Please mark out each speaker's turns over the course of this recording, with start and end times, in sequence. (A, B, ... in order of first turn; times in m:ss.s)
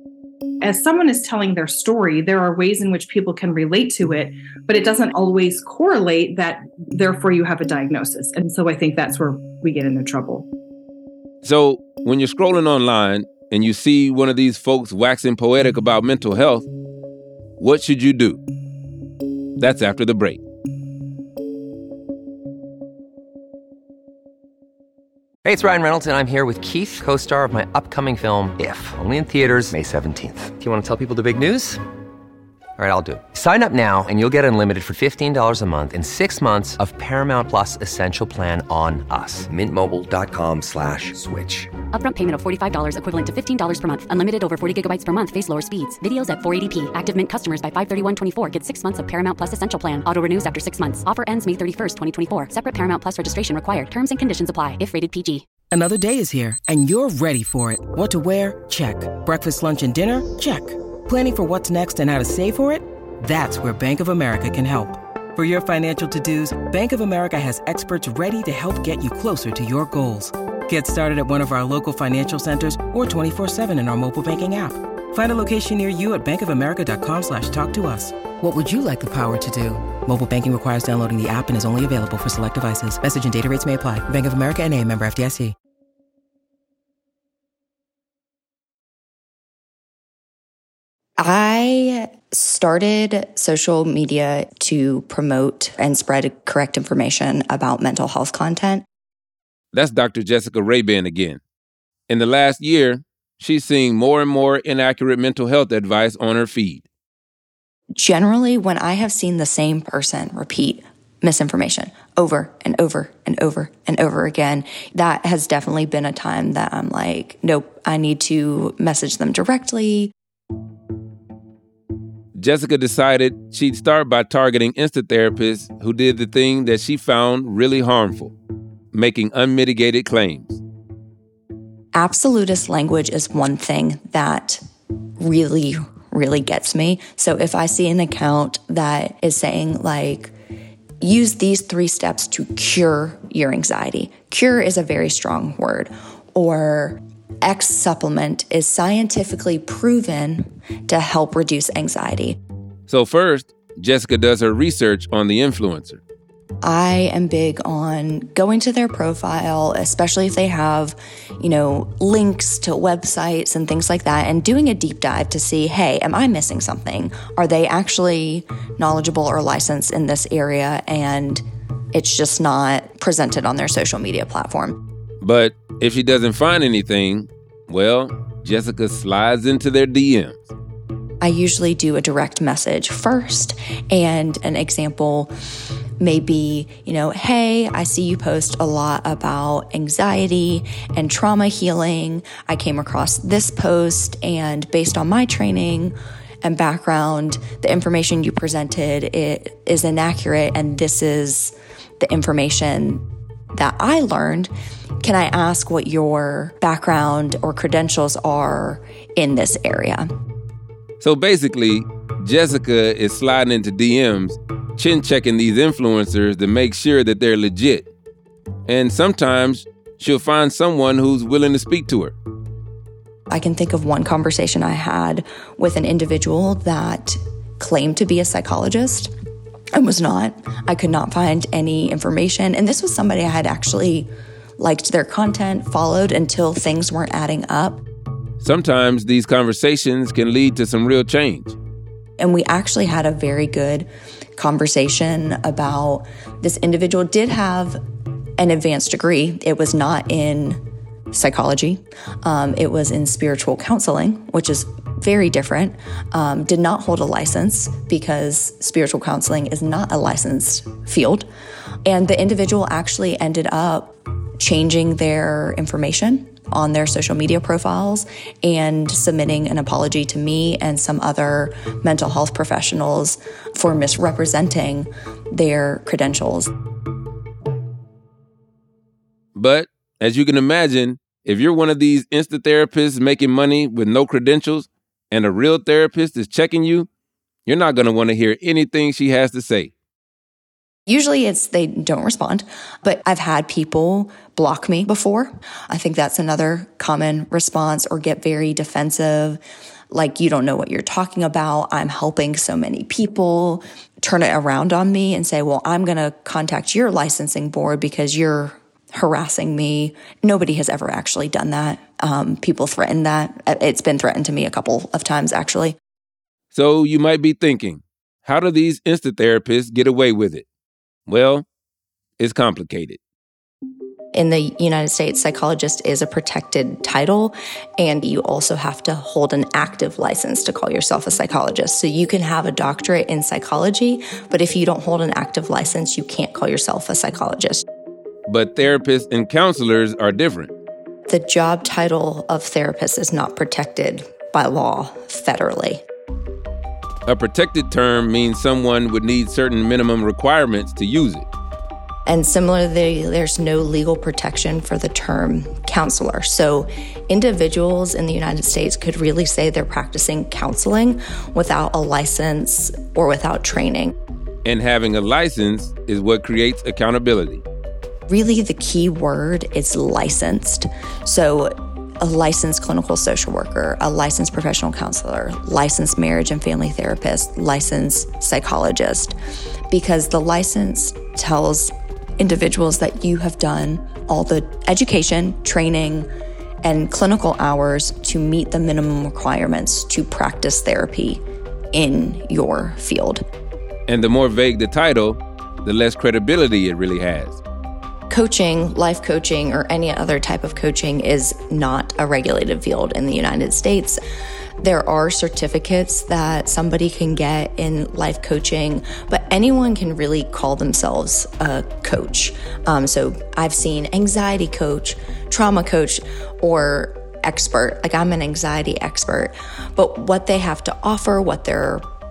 0:00.6-0:10.5 A
0:11.4-0:16.7 B
0:17.6-0:18.4 B
0:19.6-0:20.4 B
0:25.4-0:31.8 C
0:32.8-0:41.7 C
0:41.9-0:55.4 D
0:55.7-1:25.5 E
1:31.2-1:38.8 F
1:39.7-1:41.4 B
1:42.1-1:46.8 B
1:47.9-2:00.1 F
2:02.4-2:08.3 B
2:08.9-2:10.6 B
2:11.9-2:14.6 F
2:15.2-2:20.3 F
2:21.0-2:32.4 F
2:32.9-2:36.0 B
2:36.6-2:54.8 F
2:55.2-3:00.5 B
3:01.2-3:05.3 F
3:06.0-3:23.0 F
3:23.5-3:30.1 F
3:31.0-3:37.9 B
3:38.6-3:42.1 B
3:43.3-3:49.1 F
3:49.7-3:57.8 F
3:58.4-4:01.5 B
4:02.2-4:07.8 F
4:08.4-4:10.6 F
4:11.1-4:21.3 F
4:21.8-4:36.5 F
4:39.3-4:46.9 B
4:47.4-4:49.7 B
4:50.9-5:15.8 F
5:16.5-5:20.4 B
5:21.1-5:21.4 B
5:22.2-5:23.0 B
5:24.1-5:37.6 F
5:38.3-5:40.5 B
5:41.1-5:45.8 F
5:47.0-5:51.3 B
5:52.0-6:04.0 F
6:04.4-6:07.4 B
6:08.1-6:19.2 F
6:19.7-6:26.1 F
6:26.6-6:33.2 F
6:33.9-6:37.4 B
6:38.1-6:44.0 F
6:44.6-7:01.8 F